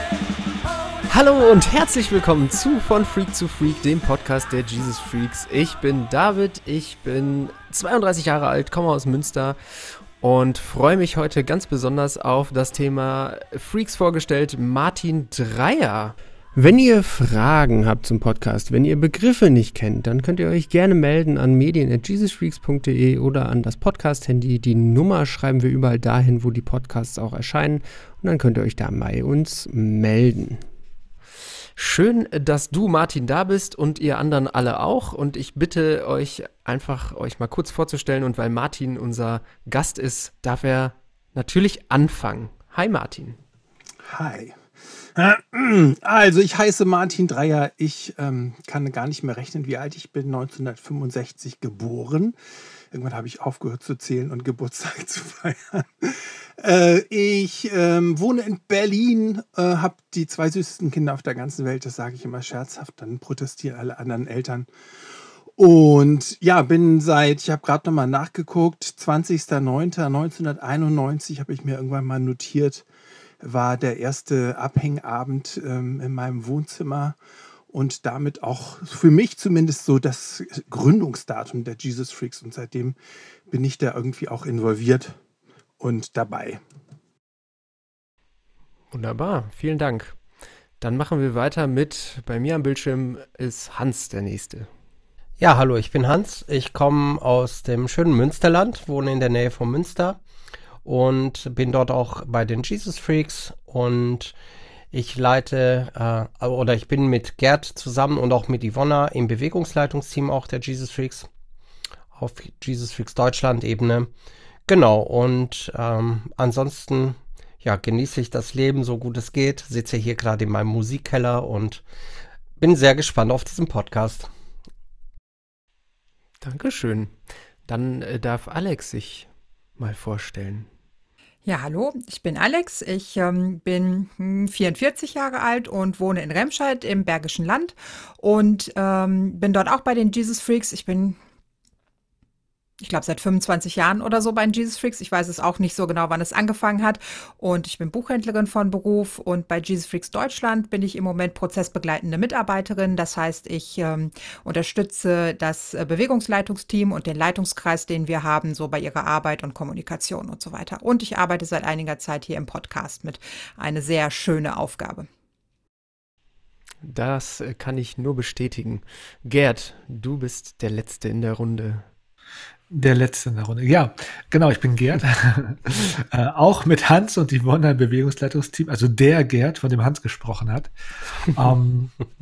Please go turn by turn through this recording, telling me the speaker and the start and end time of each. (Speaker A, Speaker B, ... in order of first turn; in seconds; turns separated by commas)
Speaker A: 1.1-30.6, Speaker A: 31.8-43.4, Speaker B: 44.0-44.6, Speaker B: 45.1-52.4, Speaker B: 52.9-64.7, Speaker B: 65.6-72.9, Speaker B: 73.4-77.2, Speaker B: 77.7-83.0, Speaker B: 83.5-85.2, Speaker B: 85.8-86.6, Speaker A: 88.9-90.2, Speaker A: 90.8-94.7, Speaker C: 95.4-100.2, Speaker C: 100.8-104.4, Speaker C: 104.9-111.3, Speaker C: 112.2-114.1, Speaker C: 114.7-121.8, Speaker C: 122.6-124.3, Speaker A: 126.4-127.1, Speaker A: 127.7-130.7, Speaker D: 131.5-141.2, Speaker D: 142.8-165.1, Speaker A: 166.8-171.8, Speaker E: 172.7-180.7, Speaker E: 181.3-181.9